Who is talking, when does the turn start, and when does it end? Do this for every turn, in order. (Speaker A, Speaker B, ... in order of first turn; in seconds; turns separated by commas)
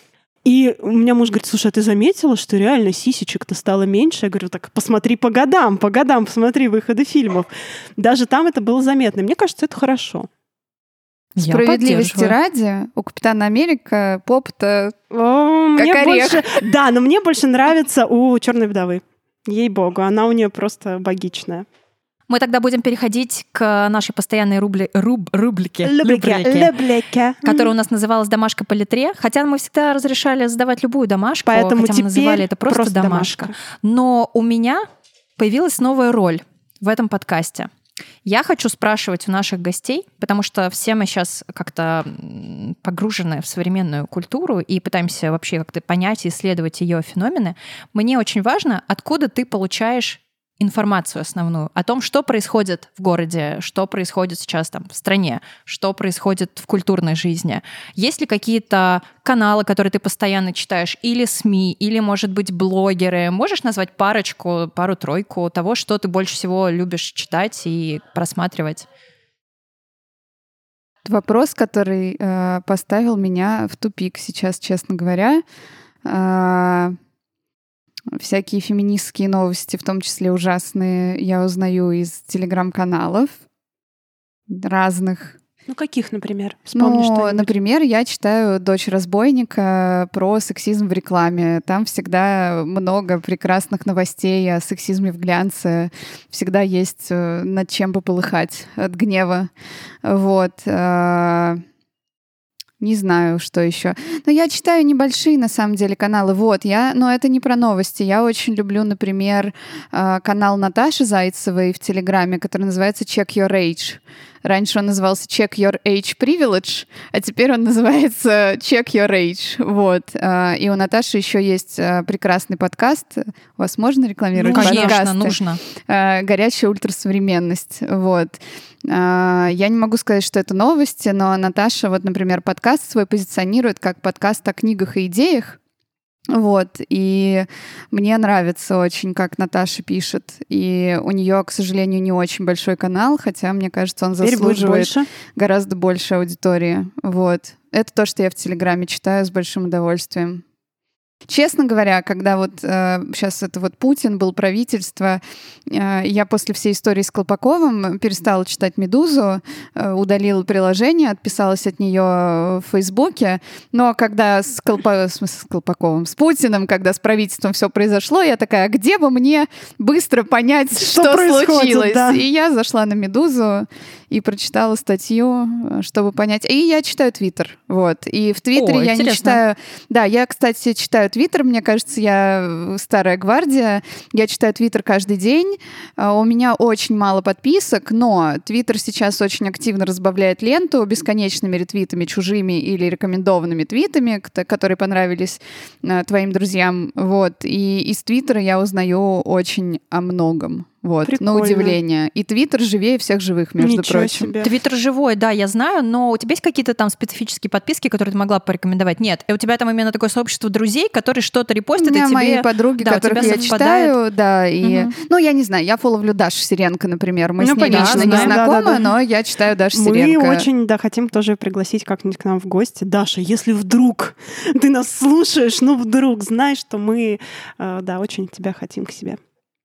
Speaker A: 0.4-10.3, Speaker B: 11.3-12.3, Speaker C: 11.4-14.9, Speaker A: 15.1-21.6, Speaker C: 15.8-16.4, Speaker B: 22.3-26.7, Speaker A: 25.8-27.7, Speaker B: 27.4-34.8, Speaker A: 31.4-33.5, Speaker B: 35.4-37.7, Speaker B: 38.2-68.8, Speaker C: 71.0-75.4, Speaker C: 76.0-77.0, Speaker C: 78.1-83.4, Speaker C: 84.5-85.3, Speaker A: 85.7-87.5, Speaker C: 86.8-99.5, Speaker C: 100.0-101.6, Speaker C: 102.8-125.3, Speaker A: 124.3-125.0, Speaker B: 124.5-125.6, Speaker C: 125.9-135.6, Speaker C: 136.3-150.4, Speaker A: 144.2-145.1, Speaker C: 151.3-204.3, Speaker A: 170.8-172.2, Speaker B: 178.5-179.4, Speaker A: 201.0-201.8, Speaker A: 203.6-204.5, Speaker B: 204.4-213.9, Speaker C: 211.8-220.5, Speaker A: 213.2-213.5, Speaker B: 214.6-214.9, Speaker A: 217.4-218.9, Speaker B: 217.7-218.4, Speaker A: 219.7-229.2